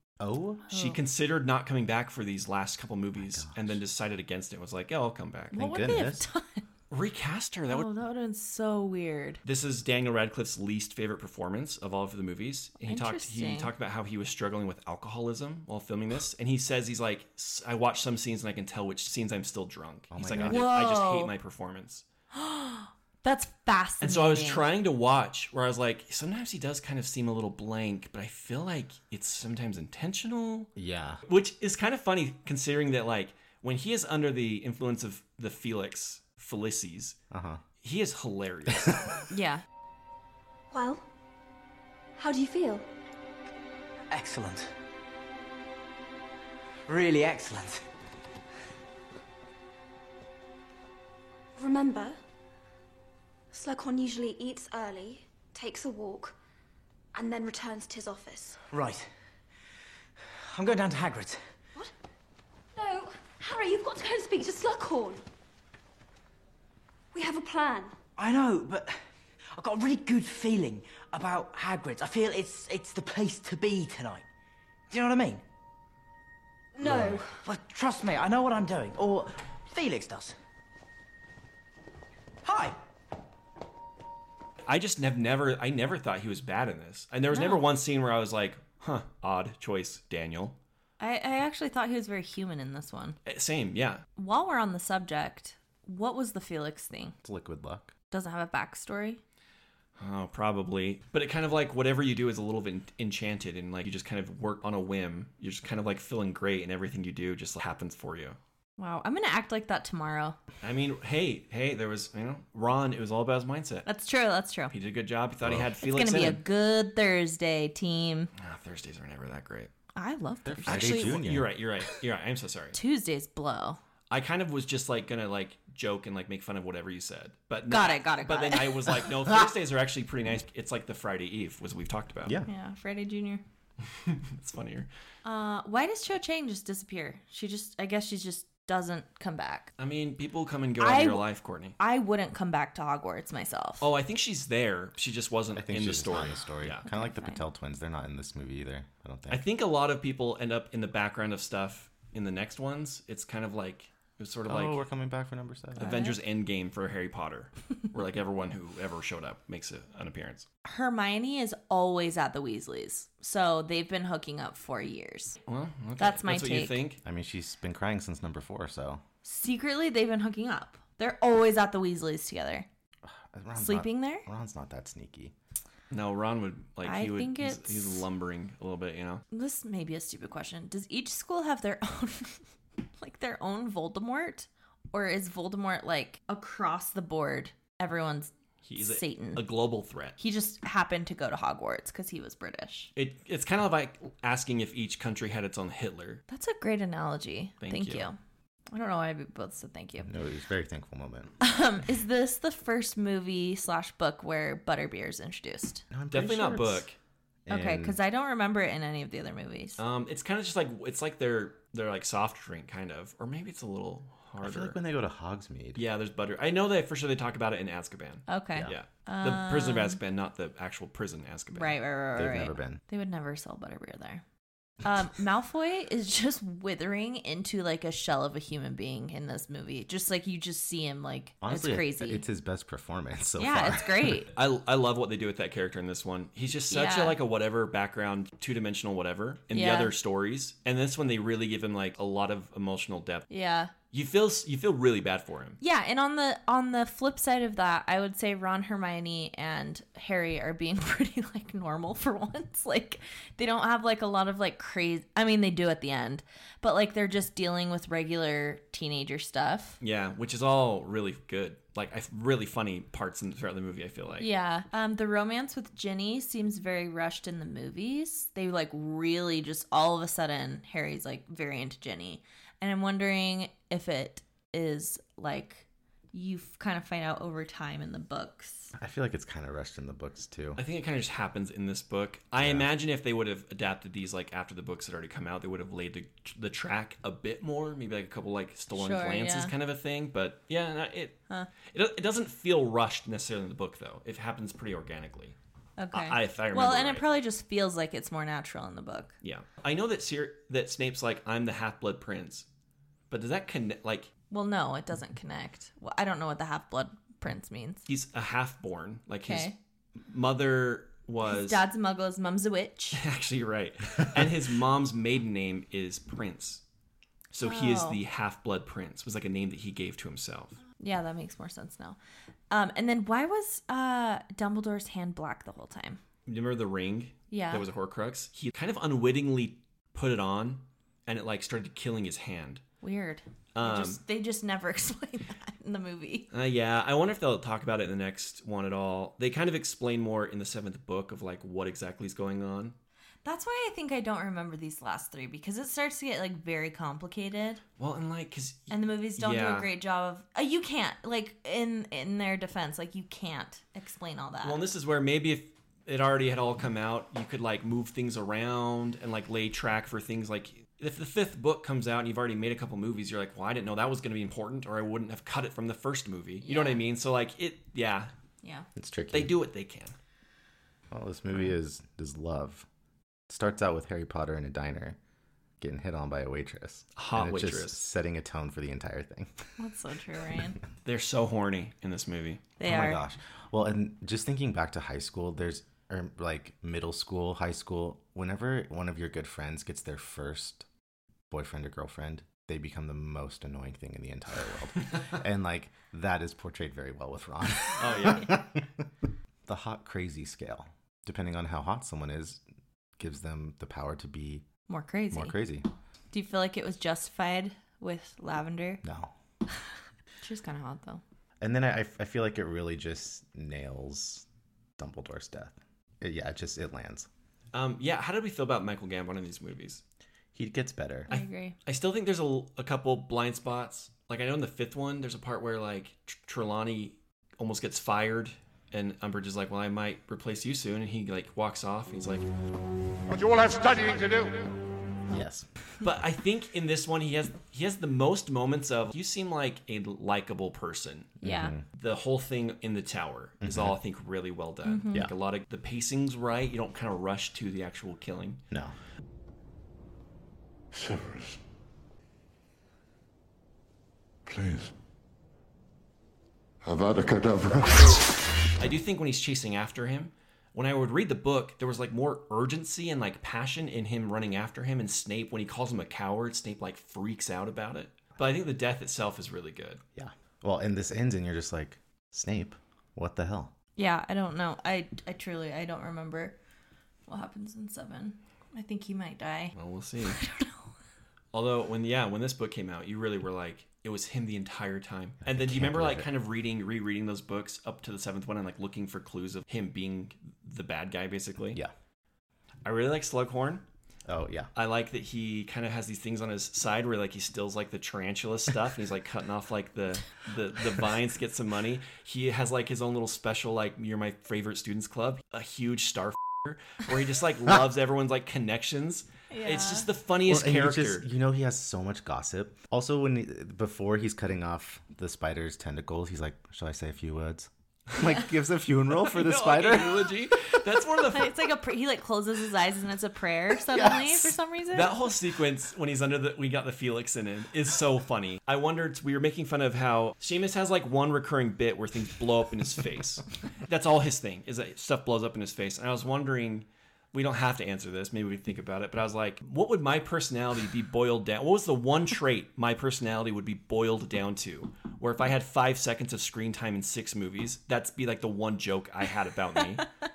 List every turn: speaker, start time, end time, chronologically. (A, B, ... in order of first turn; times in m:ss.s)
0:00.2-0:00.7 A
0:00.7-0:05.6 B
0:00.7-0:01.0 C
0:03.2-0:03.8 A
0:05.5-0:06.2 A
0:05.5-0:06.6 C
0:06.9-0:07.9 B
0:07.7-0:09.4 C
0:09.4-0:22.0 B
0:12.8-0:13.7 C
0:20.1-0:20.7 A
0:20.4-0:21.3 C
0:22.3-0:24.6 C
0:24.0-0:30.7 B
0:30.8-0:31.2 A
0:31.3-0:37.2 B
0:37.3-0:37.6 A
0:37.8-0:39.1 B
0:38.7-0:39.0 A
0:39.3-0:39.6 C
0:40.7-0:41.0 D
0:42.2-0:42.8 D
0:44.1-0:44.7 E
0:46.9-0:47.8 E
0:51.6-0:52.2 D
0:53.5-0:56.4 D
0:57.1-0:58.6 D
0:58.7-0:59.1 E
1:00.5-1:01.4 E
1:02.7-1:05.2 D
1:07.1-1:07.9 D
1:08.2-1:09.0 E
1:09.5-1:14.2 E
1:14.9-1:15.4 E
1:16.7-1:17.4 D
1:16.8-1:20.3 E
1:22.4-1:22.8 E
1:24.7-1:30.6 B
1:27.3-1:27.6 C
1:31.0-1:33.2 C
1:33.2-1:34.0 B
1:34.2-1:37.1 C
1:37.2-1:37.9 A
1:38.1-1:39.2 C
1:40.0-1:48.4 B
1:48.8-1:50.4 C
1:50.6-1:53.8 B
1:53.8-1:54.7 C
1:54.7-1:56.4 B
1:55.4-1:55.7 A
1:55.8-1:58.3 C
1:58.4-1:59.7 B
1:59.9-2:01.2 C
2:00.4-2:01.5 A
2:00.6-2:02.8 B
2:02.7-2:03.8 C
2:04.1-2:12.4 B
2:07.7-2:09.0 C
2:12.5-2:13.4 C
2:14.0-2:14.9 B
2:15.2-2:19.7 C
2:19.8-2:21.8 B
2:20.8-2:21.2 C
2:21.8-2:23.9 C
2:23.8-2:26.8 B
2:25.6-2:29.4 A
2:26.8-2:27.4 C
2:29.3-2:34.8 B
2:34.5-2:35.9 A
2:35.8-2:40.4 B
2:35.8-2:36.2 C
2:40.6-2:45.4 C
2:45.5-2:47.0 B
2:46.0-2:46.8 C
2:47.0-2:49.0 A
2:49.2-2:52.6 C
2:53.0-2:55.3 A
2:53.6-2:54.2 C
2:55.9-2:59.2 B
2:56.8-2:58.0 C
2:59.3-3:02.4 C
3:03.0-3:09.4 C
3:08.6-3:10.2 B
3:10.2-3:12.9 C
3:13.0-3:16.2 B
3:16.3-3:18.2 C
3:17.6-3:18.1 B
3:18.7-3:20.1 C
3:20.0-3:21.3 A
3:21.4-3:25.8 C
3:25.9-3:26.8 A
3:26.1-3:27.0 B
3:27.4-3:28.0 A
3:27.5-3:29.8 C
3:29.8-3:34.8 B
3:34.4-3:35.8 A
3:35.8-3:41.8 B
3:38.3-3:40.0 C
3:41.5-3:44.2 C
3:42.2-3:42.8 A
3:44.8-3:52.2 C
3:51.4-3:54.2 A
3:53.4-3:54.3 C
3:54.3-4:03.3 B
3:56.7-3:57.2 C
3:59.5-3:59.9 C
4:03.3-4:03.7 C
4:03.9-4:05.6 B
4:05.6-4:19.8 C
4:19.8-4:24.3 B
4:24.2-4:38.7 C
4:38.8-4:40.6 A
4:40.6-4:55.4 B
4:42.4-4:42.7 A
4:48.7-4:49.5 C
4:55.8-4:59.1 C
4:55.9-4:57.0 B
4:59.2-5:02.4 B
5:03.1-5:04.1 B
5:04.3-5:07.8 C
5:07.9-5:11.6 B
5:09.2-5:09.5 C
5:11.2-5:13.0 C
5:12.9-5:16.6 B
5:17.3-5:20.6 B
5:17.4-5:18.0 C
5:20.8-5:22.0 C
5:22.5-5:26.0 C
5:26.2-5:32.6 B
5:27.3-5:27.6 C
5:32.8-5:36.3 C
5:33.5-5:34.0 B
5:36.3-5:42.7 B
5:43.2-5:47.6 C
5:47.8-5:49.7 B
5:48.7-5:54.6 C
5:54.4-6:08.1 B
6:06.4-6:06.8 C
6:08.4-6:08.7 C
6:08.8-6:09.4 A
6:09.1-6:09.9 B
6:10.9-6:12.6 A
6:13.3-6:15.0 A
6:15.6-6:19.5 A
6:17.0-6:17.8 B
6:19.6-6:20.6 C
6:20.8-6:22.5 B
6:22.6-6:23.0 C
6:22.6-6:30.6 A
6:31.3-6:38.9 A
6:37.8-6:38.3 B
6:39.4-6:42.4 A
6:43.0-6:44.4 A
6:44.7-6:45.3 C
6:45.1-6:45.7 A
6:46.1-6:48.8 C
6:48.8-6:49.1 A
6:50.2-6:51.0 C
6:51.4-6:54.2 A
6:54.8-6:57.1 A
6:57.5-6:59.8 B
7:00.3-7:01.1 A
7:01.1-7:01.6 C
7:01.1-7:12.3 B
7:13.6-7:14.2 B
7:15.1-7:15.5 A
7:15.8-7:21.2 B
7:21.2-7:21.6 A
7:21.2-7:21.5 C
7:21.7-7:28.4 B
7:23.4-7:23.7 A
7:24.6-7:25.1 C
7:30.7-7:31.4 F
7:34.2-7:34.7 F
7:36.6-7:38.2 F
7:38.6-7:49.8 B
7:49.9-7:53.5 A
7:53.8-7:56.4 C
7:57.1-7:59.5 C
7:59.5-8:00.2 B
8:00.1-8:00.7 C
8:01.3-8:11.6 B
8:05.2-8:06.1 A
8:12.6-8:13.6 B
8:14.1-8:14.5 A
8:14.5-8:31.0 B
8:29.3-8:29.9 C
8:30.2-8:40.1 A
8:39.0-8:41.4 B
8:41.1-8:45.0 C
8:43.7-8:44.3 A
8:44.7-9:09.8 B
9:09.6-9:09.8 C